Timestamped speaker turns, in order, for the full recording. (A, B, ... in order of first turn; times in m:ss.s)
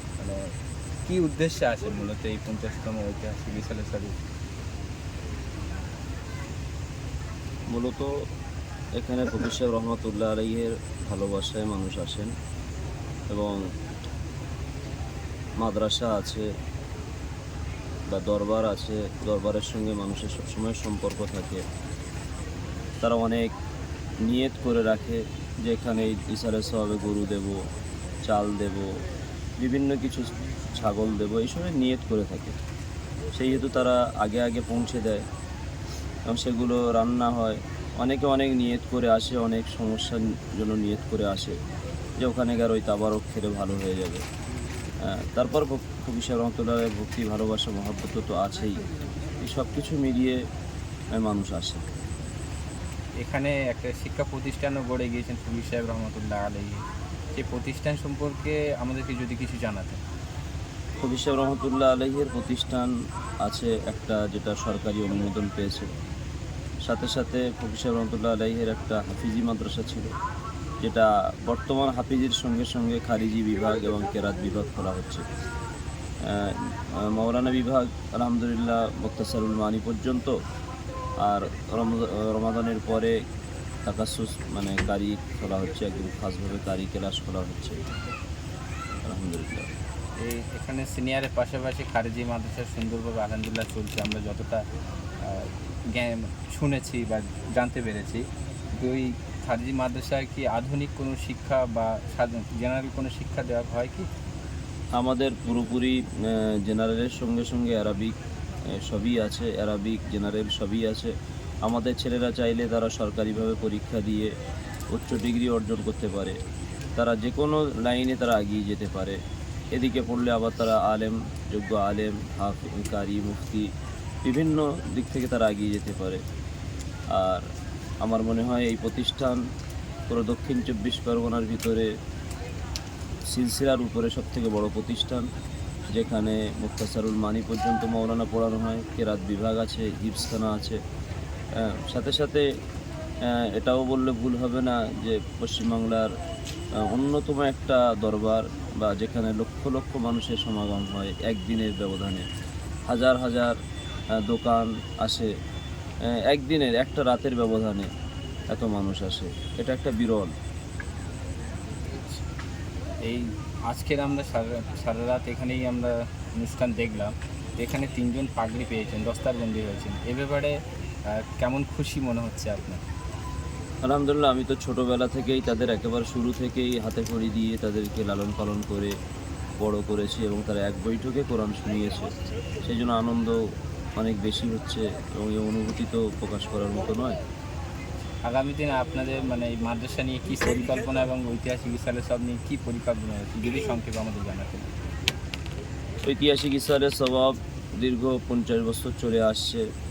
0:00.2-0:00.5 A
0:01.0-0:04.2 A
0:07.7-0:08.1 B
0:09.0-0:12.3 B
0:13.3-0:13.6 B
0:15.6-0:16.5 B
0:18.1-0:21.6 B
0:23.0-0:23.5 B
0:24.2-0:27.6 B
0:28.3-0:29.0 B
0:29.6-0:32.6 B
0:33.4-0:35.2 B
0:36.3-0:41.6 B
0:42.2-0:44.2 B
0:45.0-0:48.9 B
0:49.4-0:50.4 B
0:51.1-0:51.8 B
0:53.2-0:56.8 A
0:57.3-1:00.0 A
1:01.0-1:02.9 B
1:03.4-1:05.9 B
1:06.9-1:10.1 B
1:10.8-1:15.2 B
1:16.2-1:20.4 B
1:21.2-1:23.2 B
1:23.8-1:27.8 B
1:29.0-1:29.7 B
1:30.2-1:34.6 A
1:35.2-1:44.1 A
1:44.9-1:48.1 B
1:48.7-1:51.1 B
1:51.6-1:54.3 B
1:54.9-1:56.4 B
1:57.0-1:59.2 B
1:59.7-2:03.7 B
2:04.2-2:06.2 B
2:07.1-2:07.4 B
2:08.0-2:09.4 B
2:10.1-2:11.9 B
2:13.3-2:15.2 B
2:15.9-2:20.8 B
2:21.6-2:22.4 B
2:23.2-2:26.1 B
2:26.8-2:32.2 B
2:32.9-2:33.6 B
2:34.2-2:35.3 B
2:36.0-2:37.9 B
2:38.5-2:40.3 B
2:43.0-2:52.8 A
2:53.8-2:58.9 B
2:59.6-3:02.1 B
3:02.6-3:03.4 B
3:04.0-3:07.2 B
3:08.2-3:14.7 A
3:16.0-3:19.6 B